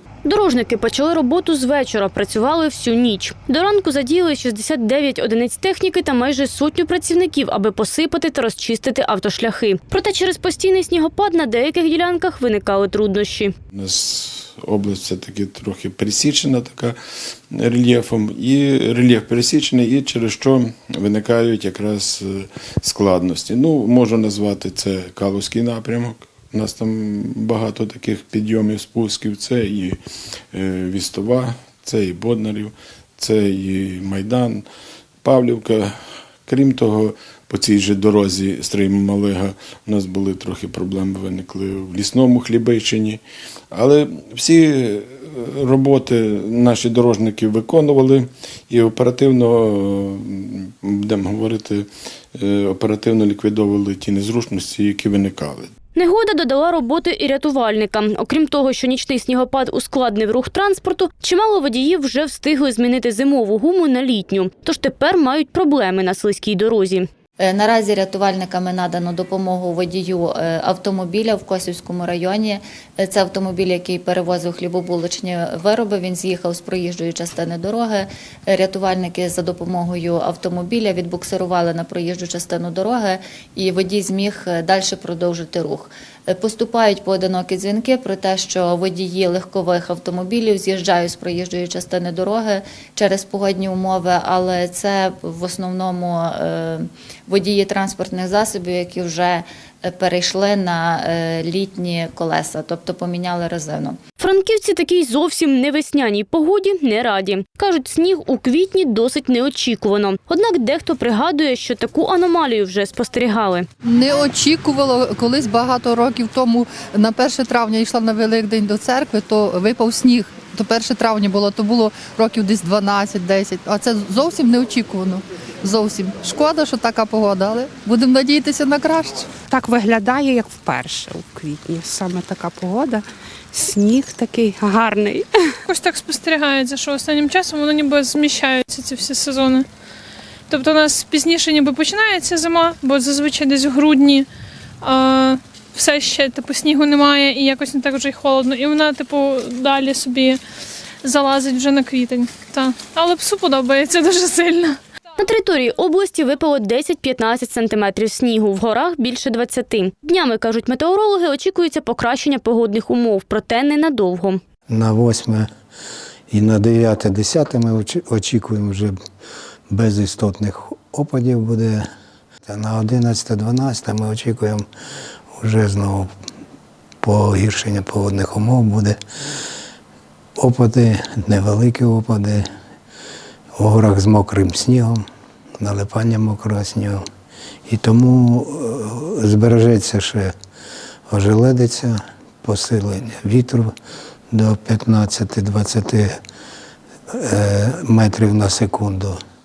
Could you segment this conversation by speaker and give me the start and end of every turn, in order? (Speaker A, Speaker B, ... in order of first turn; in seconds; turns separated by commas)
Speaker A: 0.2-13.5, Speaker B: 13.7-16.9, Speaker B: 17.5-30.0, Speaker B: 30.5-34.6, Speaker B: 35.2-35.9, Speaker B: 36.5-43.2, Speaker B: 43.7-55.7, Speaker A: 55.9-67.1, Speaker C: 67.4-104.0, Speaker A: 104.2-113.7, Speaker D: 113.8-129.4, Speaker E: 129.4-135.4, Speaker F: 135.7-139.7, Speaker F: 140.5-144.2, Speaker F: 144.8-150.4, Speaker F: 151.0-154.8, Speaker A: 155.2-164.4, Speaker G: 164.7-165.5, Speaker G: 166.3-168.9, Speaker G: 169.7-171.8, Speaker G: 172.4-174.6, Speaker G: 175.4-176.1, Speaker G: 177.0-179.0, Speaker G: 180.4-182.4, Speaker G: 183.6-185.0, Speaker G: 185.6-187.0, Speaker G: 187.7-190.3, Speaker G: 191.1-193.7, Speaker G: 194.3-196.2, Speaker G: 197.1-199.2